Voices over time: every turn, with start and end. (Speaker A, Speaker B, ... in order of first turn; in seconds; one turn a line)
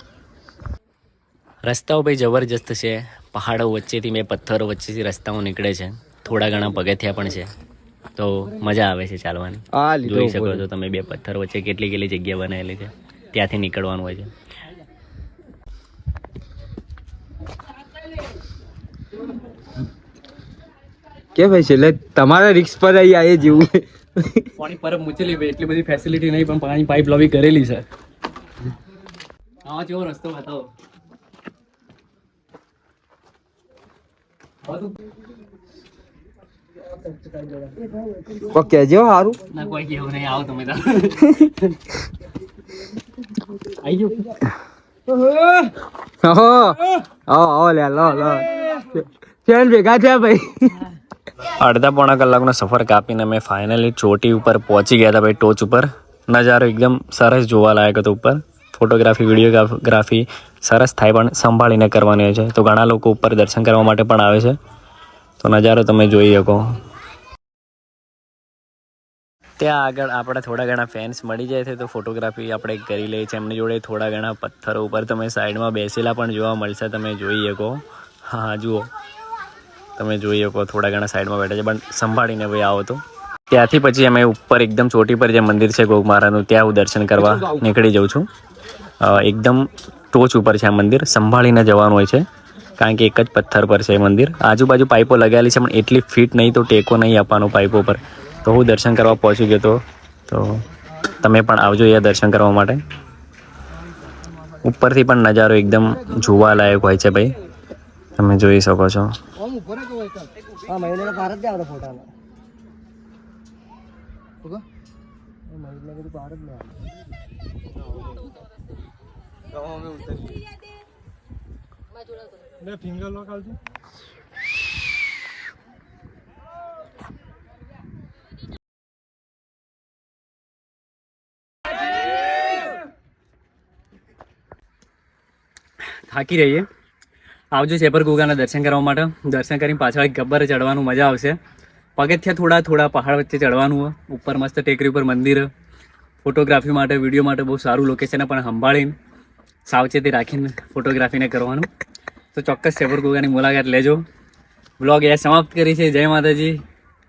Speaker A: 1.6-7.5
Speaker A: 8.2-14.3
Speaker B: 9.7-10.7
Speaker B: 21.4-24.4
Speaker A: 24.6-27.8
Speaker A: 29.7-30.7
Speaker A: 34.7-34.9
Speaker B: 38.4-39.4
Speaker A: 39.5-41.5
Speaker A: 43.8-44.2
Speaker B: 45.2-45.7
Speaker B: 46.2-48.5
Speaker B: 49.5-50.8
Speaker A: 51.6-64.6
Speaker A: 65.4-66.7
Speaker A: 69.6-78.9
Speaker A: 80.0-83.0
Speaker A: 83.5-88.3
Speaker B: 87.2-87.6
Speaker A: 89.0-92.2
Speaker A: 92.8-100.6
Speaker A: 101.2-102.8
Speaker A: 104.6-107.3
Speaker A: 108.2-109.1
Speaker B: 110.7-112.1
Speaker A: 136.1-136.7
Speaker A: 137.5-141.4
Speaker A: 142.0-145.5
Speaker A: 146.2-148.9
Speaker A: 149.7-151.7
Speaker A: 152.3-154.0
Speaker A: 154.8-156.6